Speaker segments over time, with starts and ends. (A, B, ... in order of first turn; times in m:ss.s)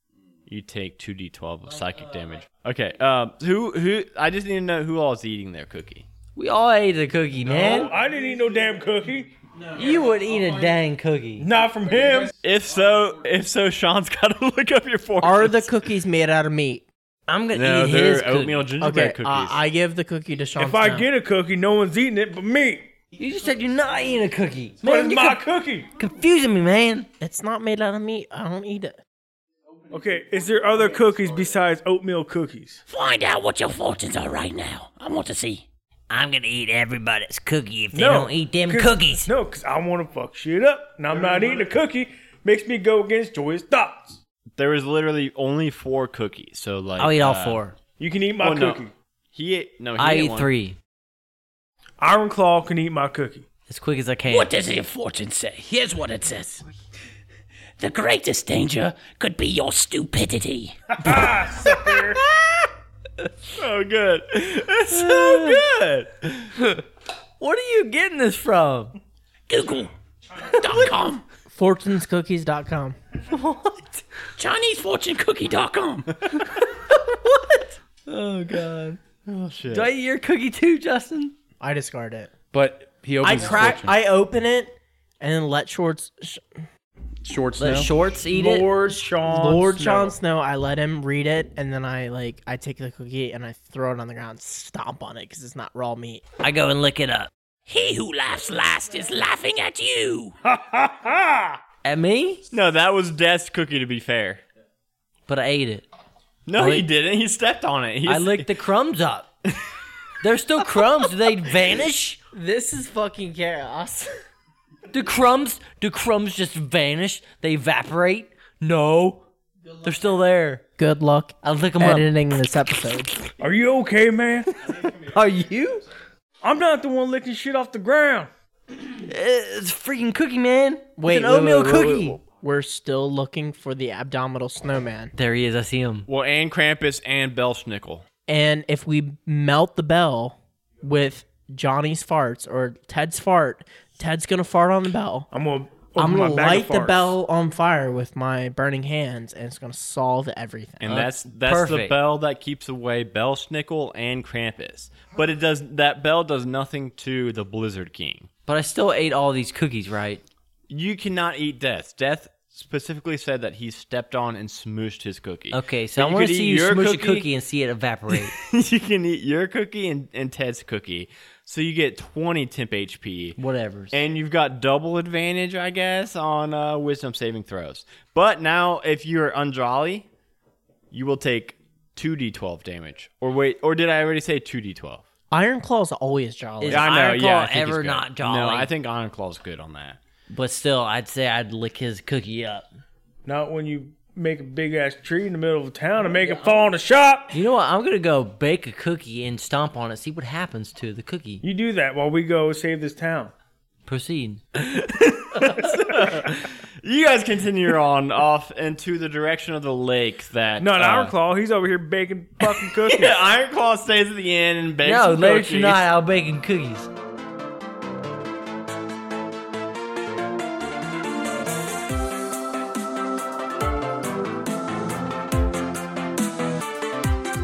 0:00.5-0:06.0 A
0:06.4-0:07.9 B
0:07.4-0:09.3 C
0:09.8-0:11.4 B
0:11.4-0:12.3 C
0:12.4-0:15.7 A
0:15.2-0:16.9 D
0:17.3-0:18.7 B
0:17.5-0:19.6 A
0:18.8-0:21.1 D
0:20.6-0:22.9 C
0:23.2-0:25.4 B
0:24.8-0:25.9 C
0:26.0-0:27.1 B
0:27.2-0:29.0 D
0:29.9-0:32.8 C
0:32.9-0:35.6 E
0:36.1-0:39.3 B
0:37.9-0:44.2 C
0:44.6-0:47.6 A
0:47.0-0:47.7 B
0:48.0-0:48.9 C
0:48.4-0:50.5 A
0:50.0-0:50.8 B
0:52.0-0:53.4 C
0:53.7-0:54.5 B
0:54.3-0:56.6 E
0:57.8-1:00.8 E
1:01.0-1:02.2 C
1:03.6-1:06.5 A
1:04.9-1:05.6 B
1:07.4-1:08.9 B
1:09.5-1:09.9 E
1:10.5-1:11.2 E
1:11.4-1:13.0 D
1:13.3-1:14.0 B
1:14.4-1:16.1 E
1:16.5-1:19.0 B
1:19.2-1:19.9 A
1:19.7-1:21.3 B
1:21.6-1:22.3 D
1:22.5-1:23.9 F
1:23.2-1:26.6 D
1:27.2-1:27.9 F
1:27.6-1:28.8 B
1:28.3-1:30.2 C
1:29.2-1:36.2 D
1:36.4-1:37.3 B
1:37.7-1:40.3 E
1:40.5-1:41.6 C
1:41.8-1:42.4 B
1:42.5-1:44.4 A
1:45.3-1:45.8 B
1:46.4-1:48.5 A
1:46.6-1:46.9 B
1:48.0-1:49.3 B
1:50.2-1:52.2 B
1:52.3-1:54.1 D
1:54.9-1:59.2 B
1:59.8-2:00.6 B
2:00.8-2:03.1 D
2:01.4-2:02.1 B
2:03.4-2:04.5 C
2:04.9-2:05.8 B
2:06.4-2:08.3 C
2:08.9-2:12.2 B
2:11.0-2:15.1 D
2:15.1-2:16.1 B
2:16.1-2:18.0 A
2:18.3-2:25.3 D
2:25.3-2:27.2 C
2:26.0-2:30.9 D
2:30.8-2:38.3 A
2:30.8-2:32.0 B
2:38.5-2:40.2 B
2:40.7-2:47.3 A
2:45.5-2:48.4 B
2:48.1-2:53.4 A
2:53.4-2:54.0 B
2:53.9-3:00.1 A
3:00.9-3:05.0 A
3:05.3-3:06.9 D
3:06.6-3:08.7 B
3:06.7-3:10.0 A
3:10.3-3:12.7 B
3:13.2-3:17.4 C
3:16.0-3:16.6 B
3:17.3-3:21.4 B
3:21.4-3:23.3 C
3:23.8-3:24.4 B
3:24.6-3:31.1 A
3:30.6-3:33.2 C
3:32.8-3:35.8 A
3:34.8-3:36.9 B